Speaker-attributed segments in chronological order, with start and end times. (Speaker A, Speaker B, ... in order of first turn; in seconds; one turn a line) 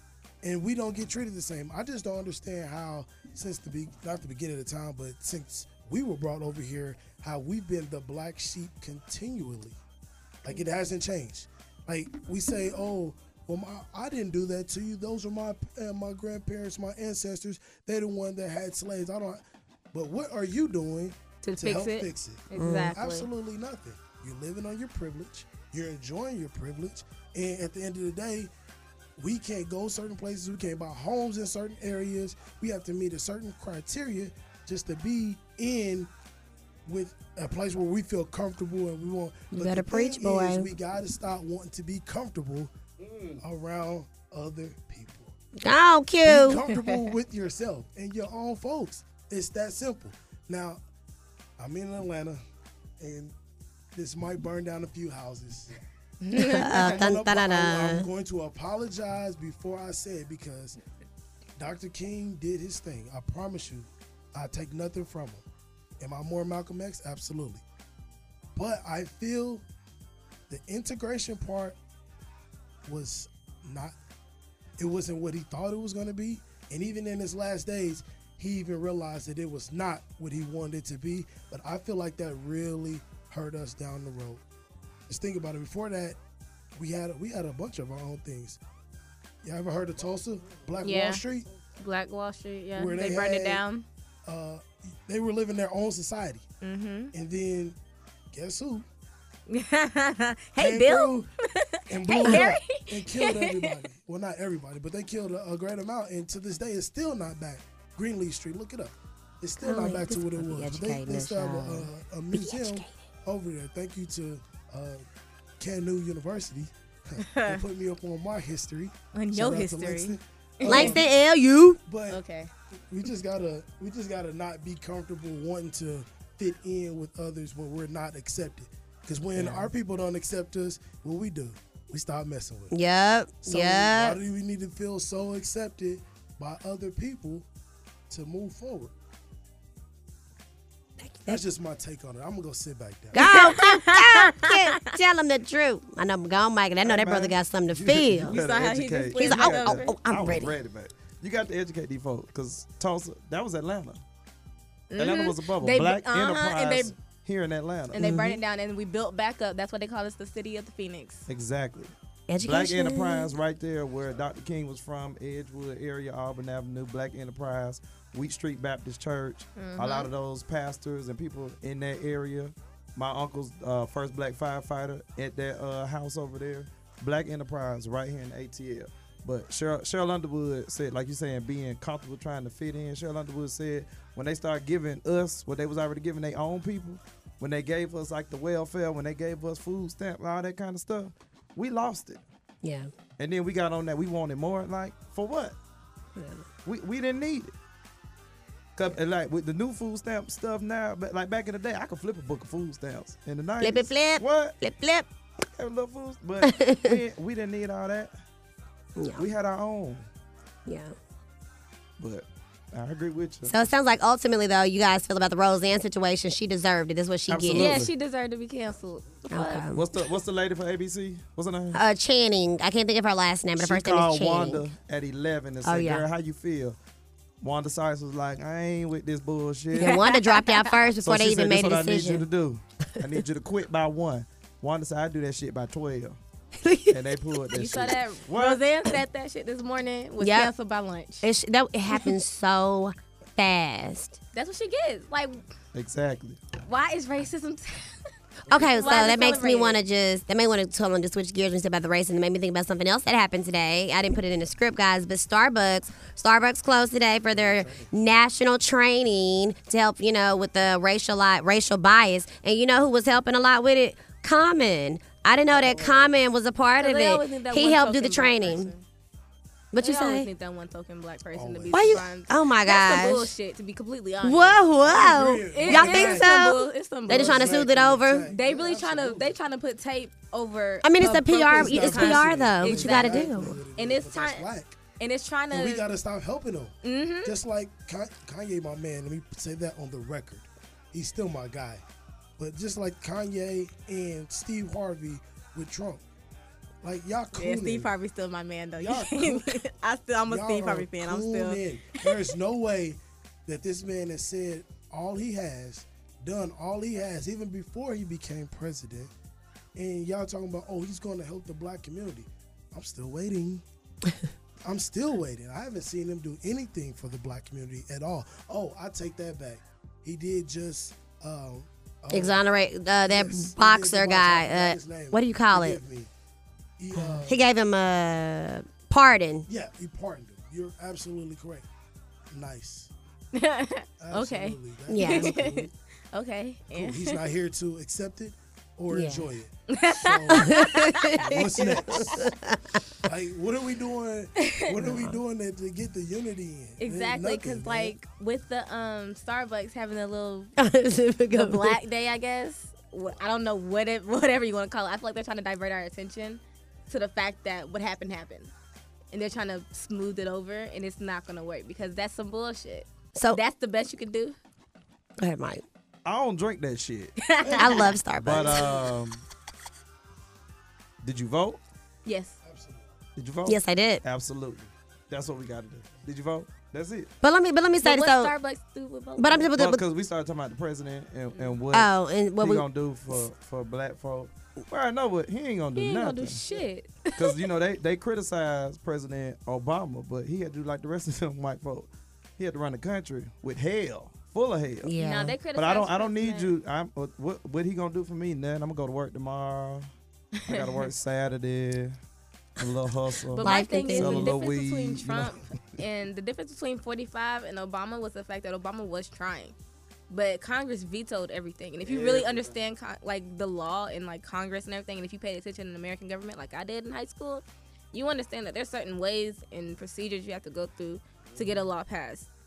Speaker A: 0.4-9.8
Speaker A: 10.4-19.4
Speaker A: 19.9-28.5
Speaker B: 21.4-23.3
Speaker C: 22.6-22.9
Speaker A: 29.2-36.1
Speaker A: 36.9-42.7
Speaker C: 39.5-40.7
Speaker D: 43.1-43.4
Speaker A: 43.4-45.4
Speaker C: 45.6-46.6
Speaker A: 46.2-50.8
Speaker B: 46.7-47.0
Speaker A: 51.6-52.4
Speaker A: 53.0-53.3
Speaker A: 53.9-55.7
Speaker B: 56.2-57.0
Speaker C: 56.4-58.1
Speaker A: 56.5-60.8
Speaker A: 61.6-65.4
Speaker A: 66.0-67.6
Speaker A: 68.6-69.6
Speaker A: 70.5-71.8
Speaker A: 72.8-74.0
Speaker A: 74.8-84.4
Speaker A: 85.1-86.2
Speaker A: 86.8-88.6
Speaker A: 89.4-91.5
Speaker B: 90.8-91.2
Speaker B: 91.8-93.8
Speaker A: 92.8-93.6
Speaker A: 94.2-96.4
Speaker B: 96.6-97.1
Speaker A: 97.1-97.8
Speaker A: 98.3-98.9
Speaker B: 99.5-103.8
Speaker A: 100.6-101.3
Speaker A: 101.9-115.0
Speaker C: 109.6-112.9
Speaker A: 115.6-121.1
Speaker B: 117.2-117.6
Speaker B: 119.1-121.0
Speaker C: 120.7-121.8
Speaker A: 121.9-122.2
Speaker B: 122.1-122.5
Speaker A: 122.9-132.7
Speaker C: 129.4-129.7
Speaker C: 132.7-134.2
Speaker A: 133.4-137.5
Speaker A: 138.1-138.9
Speaker C: 141.0-141.4
Speaker A: 141.3-143.4
Speaker C: 143.1-148.4
Speaker B: 143.2-144.9
Speaker D: 146.8-147.4
Speaker A: 147.7-148.3
Speaker D: 148.2-154.0
Speaker B: 148.3-149.9
Speaker C: 149.2-150.6
Speaker B: 154.9-156.9
Speaker D: 155.0-158.1
Speaker B: 157.9-161.3
Speaker C: 158.0-158.4
Speaker D: 161.3-161.9
Speaker C: 162.3-163.3
Speaker D: 162.4-192.2
Speaker B: 169.6-170.1
Speaker C: 192.6-192.9
Speaker D: 193.2-195.6
Speaker C: 196.2-196.5
Speaker D: 196.7-197.5
Speaker D: 198.8-204.6
Speaker C: 203.6-205.1
Speaker D: 205.6-208.1
Speaker C: 206.4-207.0
Speaker C: 209.0-209.3
Speaker D: 209.2-210.1
Speaker C: 210.7-210.9
Speaker D: 212.0-213.6
Speaker C: 213.5-217.8
Speaker D: 217.3-217.9
Speaker B: 217.5-219.7
Speaker C: 219.3-219.8
Speaker D: 219.7-221.8
Speaker C: 221.7-224.6
Speaker D: 223.6-226.8
Speaker C: 225.6-226.1
Speaker D: 227.4-230.0
Speaker C: 229.8-232.2
Speaker B: 229.8-230.8
Speaker D: 231.0-236.2
Speaker C: 236.6-237.2
Speaker D: 236.9-238.6
Speaker B: 237.5-241.3
Speaker C: 240.2-240.5
Speaker C: 241.2-244.2
Speaker B: 244.3-245.4
Speaker D: 245.7-246.4
Speaker B: 246.7-248.0
Speaker C: 248.5-268.7
Speaker B: 248.5-249.8
Speaker A: 257.4-257.9
Speaker A: 265.5-266.1
Speaker B: 266.8-268.9
Speaker C: 269.7-270.3
Speaker B: 269.8-274.6
Speaker A: 271.3-272.1
Speaker C: 271.7-273.3
Speaker C: 274.2-278.3
Speaker A: 274.8-276.5
Speaker B: 275.5-277.6
Speaker A: 277.1-279.4
Speaker B: 278.3-284.5
Speaker C: 280.8-283.6
Speaker A: 281.4-284.8
Speaker B: 285.0-285.9
Speaker A: 285.5-291.8
Speaker B: 286.8-287.3
Speaker A: 292.4-296.0
Speaker A: 296.8-297.9
Speaker B: 297.4-302.2
Speaker A: 298.8-299.6
Speaker A: 300.3-309.1
Speaker A: 309.8-313.6
Speaker A: 314.6-322.4
Speaker C: 322.1-325.8
Speaker A: 323.1-326.1
Speaker A: 326.8-327.4
Speaker C: 326.9-329.5
Speaker A: 329.5-331.7
Speaker A: 332.3-332.9
Speaker B: 333.3-337.2
Speaker A: 334.0-335.7
Speaker C: 334.9-335.5
Speaker A: 336.7-342.3
Speaker C: 338.9-339.3
Speaker B: 339.7-342.2
Speaker C: 340.3-342.8
Speaker A: 343.0-347.9
Speaker B: 344.4-344.7
Speaker C: 344.8-345.2
Speaker B: 346.8-350.5
Speaker C: 350.6-351.8
Speaker B: 351.3-358.5
Speaker B: 359.1-364.4
Speaker C: 363.1-363.4
Speaker C: 365.2-365.6
Speaker D: 366.1-367.2
Speaker B: 367.2-367.9
Speaker C: 367.5-368.8
Speaker D: 368.2-369.2
Speaker D: 371.0-371.6
Speaker B: 372.1-372.4
Speaker A: 372.4-372.9
Speaker D: 373.2-377.1
Speaker C: 373.5-374.0
Speaker C: 377.2-378.3
Speaker B: 377.8-379.5
Speaker C: 379.2-379.8
Speaker D: 379.6-386.4
Speaker C: 381.7-383.2
Speaker B: 385.8-387.4
Speaker D: 387.1-394.9
Speaker C: 394.8-395.4
Speaker B: 395.0-396.5
Speaker D: 395.6-399.9
Speaker B: 400.4-400.9
Speaker D: 400.5-401.9
Speaker D: 402.6-405.5
Speaker B: 403.3-409.6
Speaker C: 403.4-404.4
Speaker B: 410.1-422.3
Speaker D: 411.8-412.5